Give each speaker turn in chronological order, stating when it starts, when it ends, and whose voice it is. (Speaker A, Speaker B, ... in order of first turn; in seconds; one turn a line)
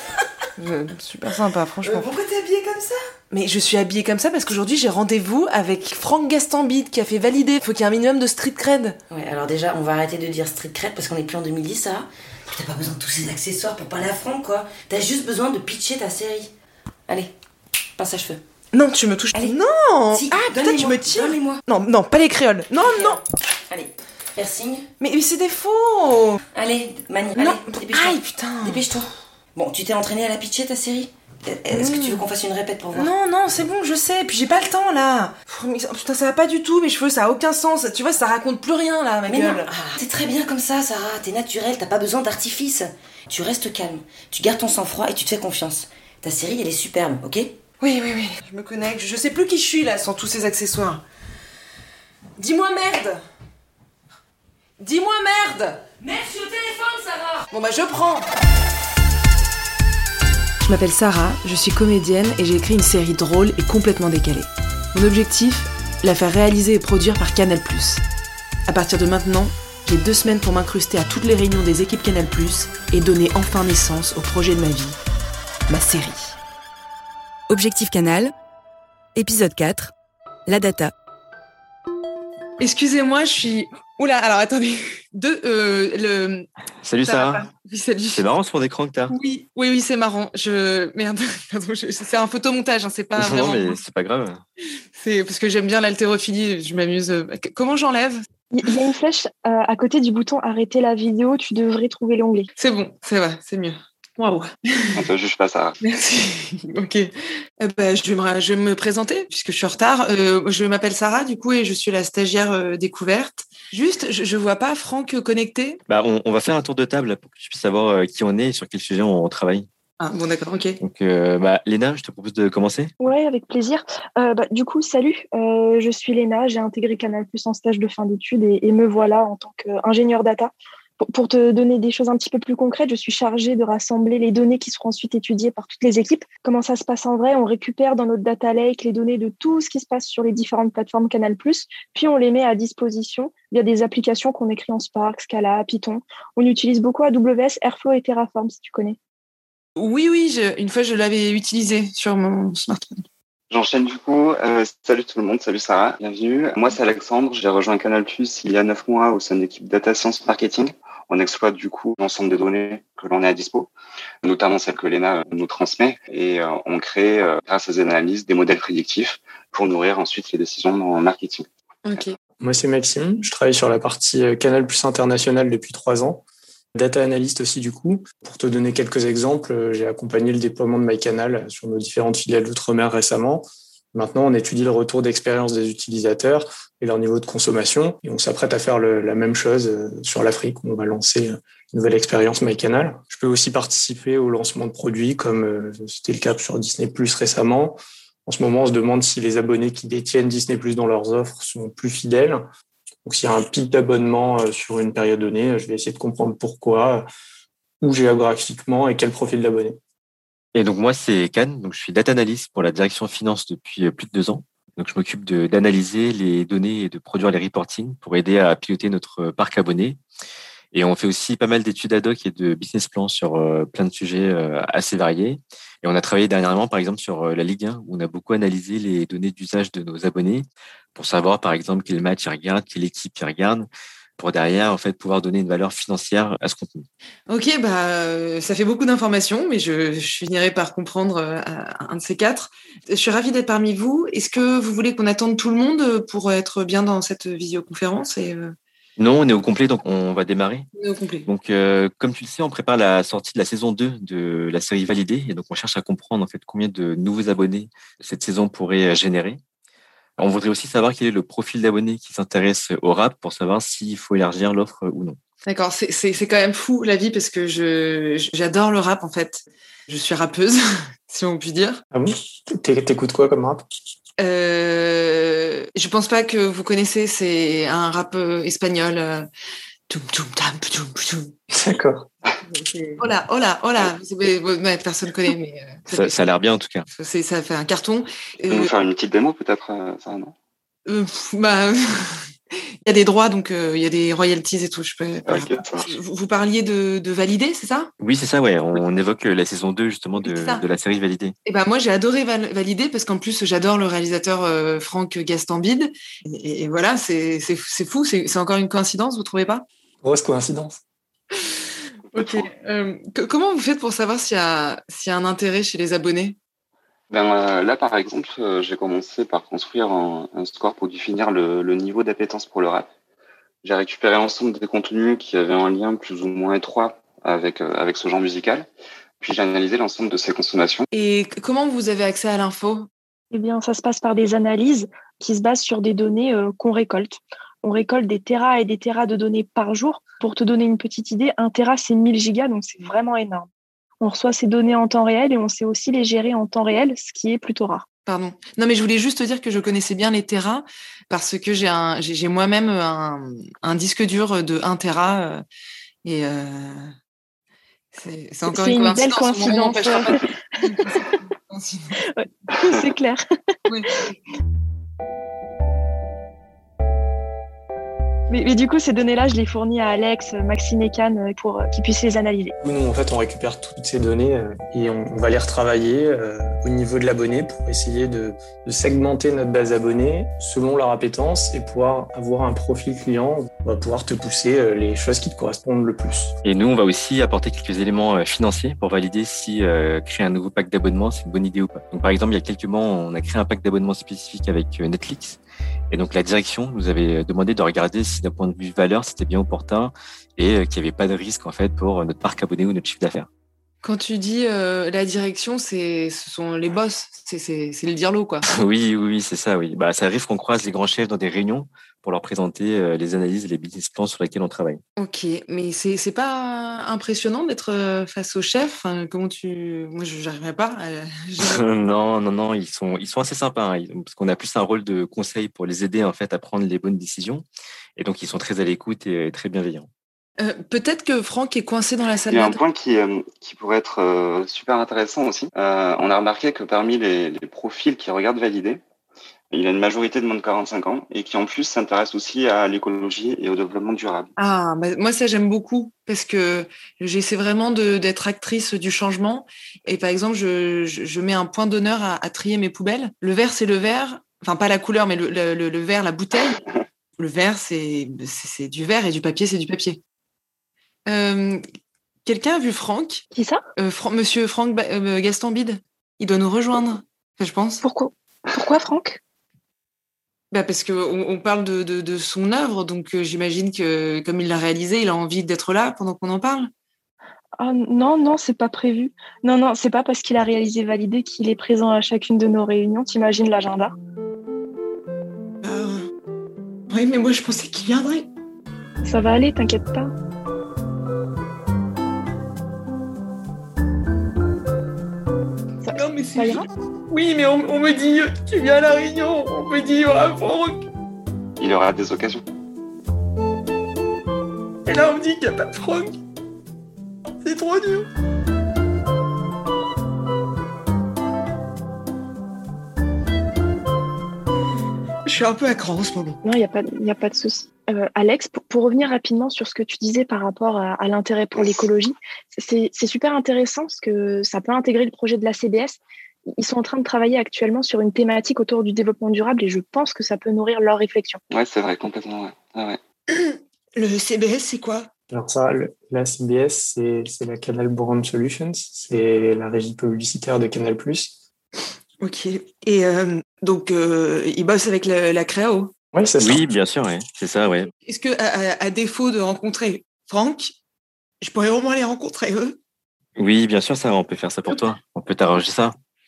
Speaker A: 0.6-2.1
Speaker B: 1.8-3.0
Speaker C: 3.3-9.0
Speaker A: 4.0-4.4
Speaker B: 9.1-16.5
Speaker B: 18.0-18.4
Speaker C: 18.7-23.2
Speaker B: 19.3-19.6
Speaker B: 20.1-21.6
Speaker B: 22.8-24.9
Speaker C: 25.0-26.4
Speaker B: 26.5-33.1
Speaker C: 27.4-28.9
Speaker C: 31.7-32.3
Speaker C: 32.9-39.7
Speaker B: 39.3-47.5
Speaker C: 47.8-51.0
Speaker A: 48.1-49.6
Speaker C: 52.4-53.1
Speaker A: 52.8-53.1
Speaker C: 54.8-58.2
Speaker A: 57.5-57.8
Speaker C: 60.7-68.0
Speaker A: 60.7-61.2
Speaker C: 68.7-75.0
Speaker C: 75.7-76.4
Speaker D: 77.5-78.3
Speaker D: 79.2-79.9
Speaker D: 80.5-80.9
Speaker A: 82.6-86.5
Speaker E: 86.8-87.5
Speaker A: 87.0-88.3
Speaker E: 88.1-89.2
Speaker A: 89.1-93.8
Speaker E: 93.2-94.4
Speaker A: 95.0-98.7
Speaker F: 98.5-102.5
Speaker A: 102.6-105.0
Speaker G: 105.0-105.8
Speaker A: 105.8-115.8
Speaker E: 115.9-119.7
Speaker A: 120.0-120.8
Speaker E: 120.8-122.9
Speaker F: 123.0-149.0
Speaker A: 149.8-153.0
Speaker G: 153.5-163.7
Speaker G: 164.2-171.5
Speaker A: 171.8-172.2
Speaker H: 172.4-202.4
Speaker H: 203.1-207.1
Speaker H: 207.8-209.8
Speaker E: 210.5-220.0
Speaker E: 220.7-236.9
Speaker A: 237.3-248.6
Speaker E: 249.0-250.7
Speaker A: 250.8-251.3
Speaker E: 251.3-259.4
Speaker E: 260.2-265.2
Speaker A: 265.4-271.8
Speaker H: 271.9-273.6
Speaker A: 274.2-279.3
Speaker A: 279.9-281.3
Speaker H: 281.5-282.1
Speaker A: 283.0-286.2
Speaker E: 285.9-286.9
Speaker A: 286.9-288.7
Speaker G: 288.4-290.3
Speaker A: 290.9-292.2
Speaker A: 292.9-297.9
Speaker G: 295.2-296.0
Speaker E: 298.0-301.4
Speaker A: 300.2-300.6
Speaker A: 301.5-309.7
Speaker H: 310.0-310.8
Speaker G: 312.1-312.5
Speaker A: 312.1-316.4
Speaker G: 317.1-322.9
Speaker G: 323.6-328.7
Speaker G: 329.2-330.9
Speaker A: 330.9-332.9
Speaker F: 333.3-343.5
Speaker F: 344.0-347.9
Speaker A: 348.1-355.4
Speaker A: 356.1-356.9
Speaker A: 357.9-362.0
Speaker F: 358.5-361.2
Speaker F: 362.1-363.2
Speaker A: 363.7-364.1
Speaker F: 368.3-372.5
Speaker H: 372.6-386.3
Speaker E: 386.4-403.3
Speaker A: 403.8-408.4
Speaker E: 408.5-414.8
Speaker A: 415.0-421.6
Speaker E: 421.4-429.9
Speaker A: 430.4-432.6
Speaker G: 432.3-438.8
Speaker G: 439.5-444.3
Speaker A: 444.4-456.6
Speaker A: 457.2-460.0
Speaker A: 461.1-461.6
Speaker A: 462.2-463.2
Speaker F: 463.3-463.6
Speaker A: 463.8-467.8
Speaker F: 467.8-469.2
Speaker A: 470.5-476.7
Speaker F: 477.6-483.9
Speaker A: 485.6-486.0
Speaker A: 486.9-488.3
Speaker F: 489.0-490.1
Speaker F: 495.8-496.7
Speaker A: 495.9-500.8
Speaker C: 498.7-499.0
Speaker C: 499.6-500.0
Speaker G: 501.6-502.4
Speaker A: 504.9-506.1
Speaker A: 507.4-508.1
Speaker A: 515.2-516.4
Speaker F: 516.4-526.0
Speaker F: 526.5-531.4
Speaker G: 531.5-533.0
Speaker A: 533.3-535.1
Speaker H: 535.3-541.4
Speaker A: 542.2-545.9
Speaker H: 546.1-546.6
Speaker E: 546.4-547.9
Speaker A: 548.1-550.8
Speaker A: 551.4-552.8
Speaker E: 553.4-556.0
Speaker A: 554.7-554.9